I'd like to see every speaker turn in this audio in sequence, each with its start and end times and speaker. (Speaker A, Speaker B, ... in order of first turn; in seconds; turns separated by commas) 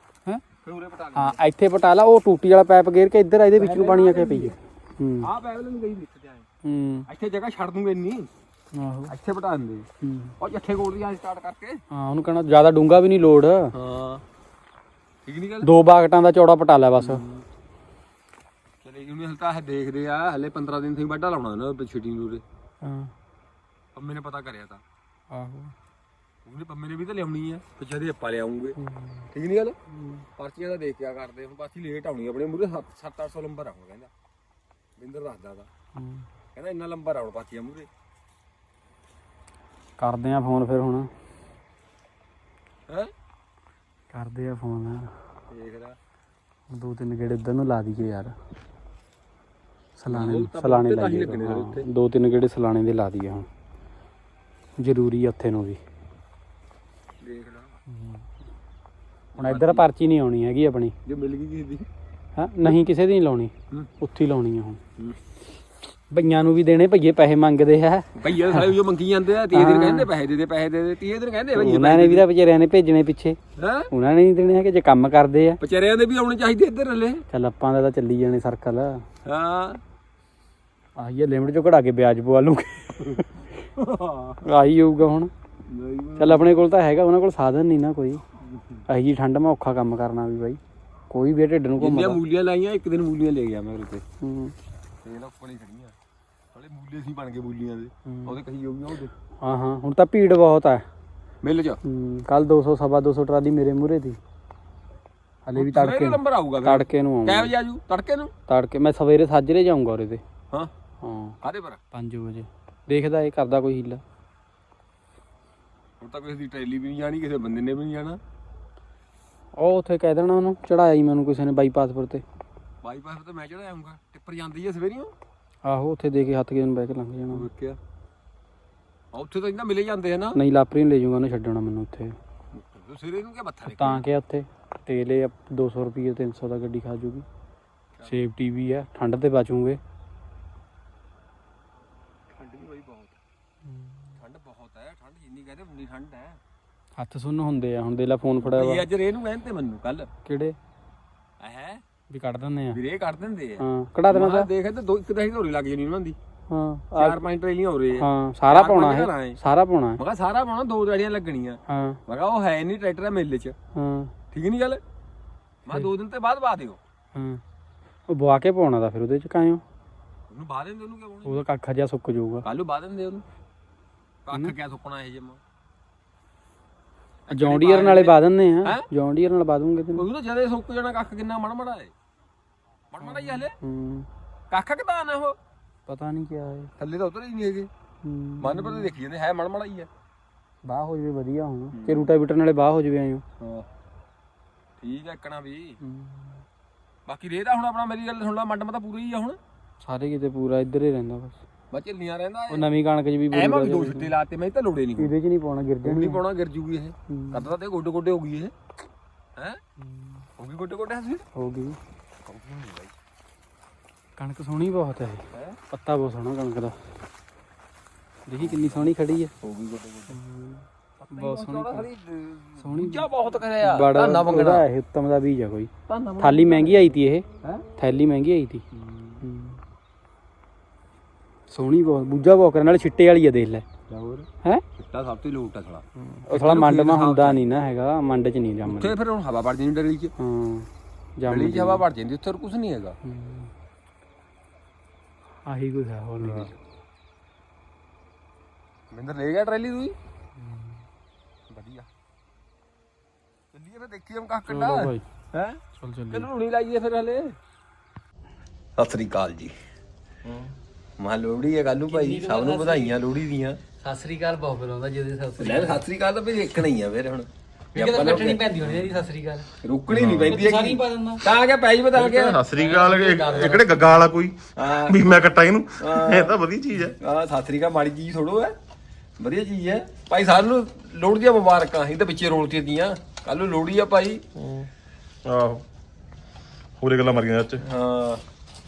Speaker A: 0.6-1.4, Speaker B: 1.2-5.3, Speaker A: 3.6-4.6, Speaker A: 5.2-6.5, Speaker B: 6.6-7.1, Speaker A: 7.1-8.3, Speaker B: 8.7-9.1, Speaker A: 9.1-9.9, Speaker B: 10.0-10.4, Speaker A: 10.4-11.8, Speaker B: 11.9-13.7, Speaker A: 13.8-14.2, Speaker A: 15.3-15.7, Speaker B: 15.6-17.2, Speaker A: 17.0-17.4, Speaker A: 18.8-22.4, Speaker B: 22.8-23.1, Speaker A: 24.0-24.8, Speaker B: 25.3-25.7, Speaker A: 26.5-28.8, Speaker B: 28.8-29.2, Speaker A: 29.3-29.8, Speaker B: 29.9-30.2, Speaker A: 30.4-34.1, Speaker A: 35.0-35.7, Speaker B: 36.0-36.2, Speaker A: 36.5-37.9, Speaker B: 40.0-41.1, Speaker B: 44.1-45.1, Speaker A: 45.5-46.0, Speaker B: 46.7-48.3, Speaker B: 50.0-53.5, Speaker A: 50.1-51.9, Speaker B: 54.8-55.8, Speaker A: 57.2-57.8, Speaker B: 57.9-58.2, Speaker A: 59.4-59.9, Speaker B: 59.4-60.9, Speaker A: 61.1-61.9, Speaker B: 62.4-64.8, Speaker B: 66.1-68.7, Speaker A: 68.2-72.2, Speaker B: 69.5-70.1, Speaker B: 71.5-73.4, Speaker A: 73.6-73.9, Speaker B: 73.9-75.6, Speaker A: 75.6-77.2, Speaker B: 77.3-79.0, Speaker A: 79.2-79.8, Speaker B: 81.0-83.4, Speaker A: 83.8-84.4, Speaker B: 84.4-85.3, Speaker A: 85.7-86.5, Speaker B: 86.2-88.2, Speaker A: 88.5-88.8, Speaker B: 88.9-90.6, Speaker B: 91.1-92.2, Speaker A: 91.8-94.0, Speaker B: 94.2-94.5, Speaker A: 95.0-96.0, Speaker A: 96.5-99.1, Speaker B: 98.1-98.4, Speaker B: 99.4-100.8, Speaker A: 101.4-101.8, Speaker B: 101.8-104.2, Speaker B: 105.5-107.5, Speaker A: 105.6-108.3, Speaker B: 108.5-110.2, Speaker B: 111.0-111.3, Speaker A: 111.4-111.8, Speaker B: 111.9-114.0, Speaker A: 116.0-118.2, Speaker B: 119.6-122.2, Speaker A: 122.8-125.1, Speaker B: 125.7-127.5, Speaker A: 127.3-127.8, Speaker A: 129.1-130.4, Speaker B: 130.3-132.2, Speaker A: 132.5-134.0, Speaker B: 133.7-137.2, Speaker B: 138.1-139.8, Speaker A: 142.3-143.2, Speaker B: 143.7-144.1, Speaker A: 144.2-146.4, Speaker B: 147.0-148.8, Speaker A: 148.4-150.1, Speaker B: 150.3-150.6, Speaker A: 151.4-151.8, Speaker B: 152.1-152.8, Speaker A: 152.7-156.2, Speaker B: 153.6-154.5, Speaker B: 156.5-157.2, Speaker A: 156.9-159.4, Speaker B: 158.0-160.0, Speaker A: 160.0-163.6, Speaker B: 161.7-162.0, Speaker B: 163.8-164.1, Speaker A: 164.3-164.8, Speaker A: 165.7-166.8, Speaker B: 167.2-167.4, Speaker B: 168.1-169.6, Speaker A: 170.3-171.4, Speaker B: 171.2-172.5, Speaker A: 172.4-173.2, Speaker A: 174.3-175.4, Speaker A: 177.3-178.8, Speaker B: 177.3-180.1, Speaker A: 179.9-181.9, Speaker A: 182.9-183.6, Speaker B: 183.0-184.1, Speaker A: 184.5-185.4, Speaker B: 185.9-186.7, Speaker A: 186.8-187.7, Speaker B: 188.0-188.9, Speaker A: 188.4-189.9, Speaker B: 190.7-193.2, Speaker A: 191.7-192.1, Speaker A: 193.4-193.7, Speaker A: 194.8-195.8, Speaker B: 195.8-196.4, Speaker A: 197.1-199.4, Speaker B: 199.8-201.4, Speaker A: 201.7-202.7, Speaker B: 202.5-204.1, Speaker A: 203.3-205.1, Speaker B: 205.0-206.2, Speaker A: 205.8-208.5, Speaker B: 207.1-207.4, Speaker B: 209.8-210.2, Speaker A: 210.4-211.2, Speaker B: 211.3-211.8, Speaker A: 212.3-212.9, Speaker B: 214.2-216.8, Speaker B: 218.3-219.3, Speaker A: 218.4-220.2, Speaker B: 220.1-221.9, Speaker A: 221.0-224.7, Speaker B: 222.6-223.1, Speaker B: 223.6-227.2, Speaker A: 225.9-226.8, Speaker B: 227.8-228.6, Speaker A: 228.7-229.2, Speaker B: 229.2-229.6, Speaker B: 231.5-233.7, Speaker A: 233.9-234.3, Speaker A: 234.8-237.5, Speaker B: 236.0-238.9, Speaker A: 238.6-240.1, Speaker B: 240.2-241.8, Speaker A: 241.3-243.0, Speaker B: 243.0-243.5, Speaker B: 245.5-246.5, Speaker A: 246.2-246.5, Speaker A: 248.9-250.0, Speaker B: 250.4-250.8, Speaker A: 251.5-251.9, Speaker A: 253.5-255.6, Speaker B: 254.5-255.0, Speaker B: 255.8-256.3, Speaker A: 256.1-257.4, Speaker A: 258.8-259.5, Speaker C: 260.2-260.5, Speaker A: 261.0-263.6, Speaker B: 261.9-263.0, Speaker B: 263.8-265.8, Speaker A: 265.4-268.4, Speaker B: 267.7-269.5, Speaker A: 269.6-272.4, Speaker C: 269.9-270.4, Speaker B: 270.3-271.2, Speaker C: 271.9-276.9, Speaker B: 272.5-273.8, Speaker A: 274.6-275.0, Speaker A: 275.8-276.4, Speaker A: 277.0-278.6, Speaker A: 279.2-284.2, Speaker C: 284.4-284.7, Speaker C: 285.3-285.6, Speaker C: 286.8-287.6, Speaker A: 287.6-288.2